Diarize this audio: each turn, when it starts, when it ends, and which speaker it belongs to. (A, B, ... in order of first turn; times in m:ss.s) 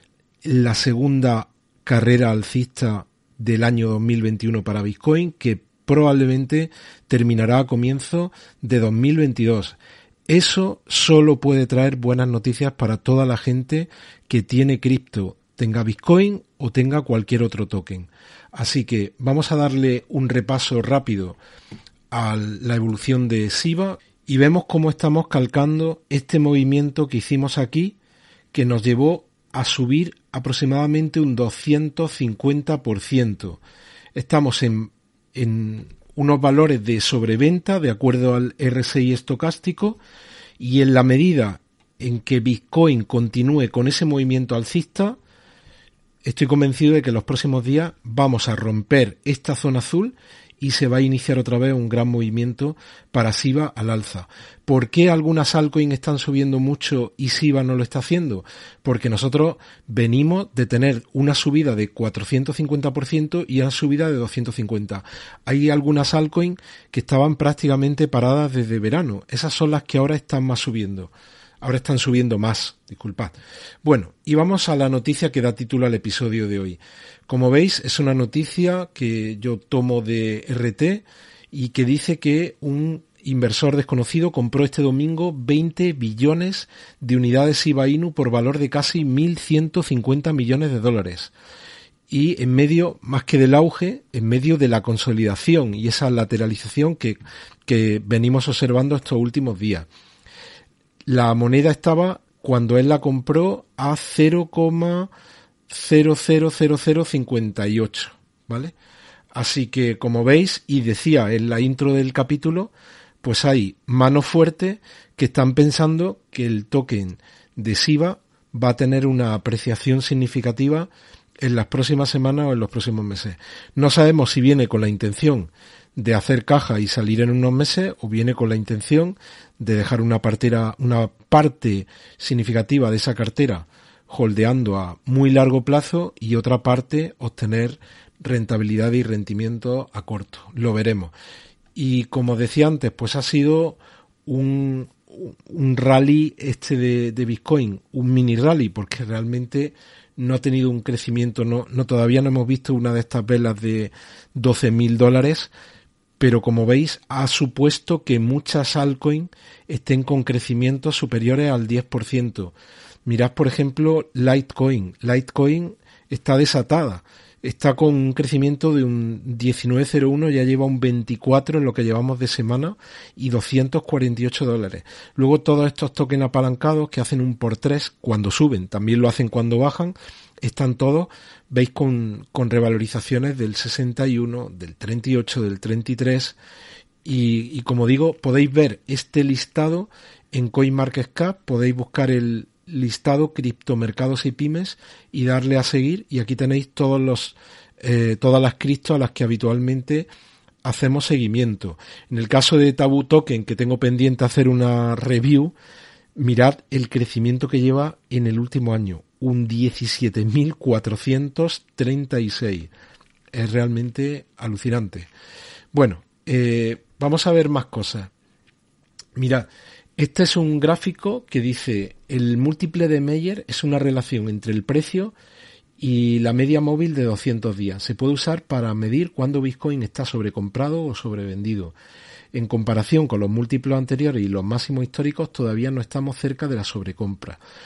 0:00.4-0:21.4 A
0:22.1-0:28.0 A
0:28.5-0:33.6 A
0:34.2-0:40.0 A
0:40.6-0:45.2 A
0:46.2-1:31.3 A
1:32.1-1:39.9 A
1:41.1-1:45.1 A
1:45.7-1:48.7 A
1:49.3-2:21.1 A
2:21.8-2:35.5 A
2:36.2-3:06.4 A
3:07.0-3:20.1 A
3:20.6-3:25.5 A
3:26.1-3:32.7 A
3:33.3-3:35.1 A
3:35.7-3:38.1 A
3:39.2-3:45.1 A
3:45.8-3:51.8 A
3:52.3-3:57.4 A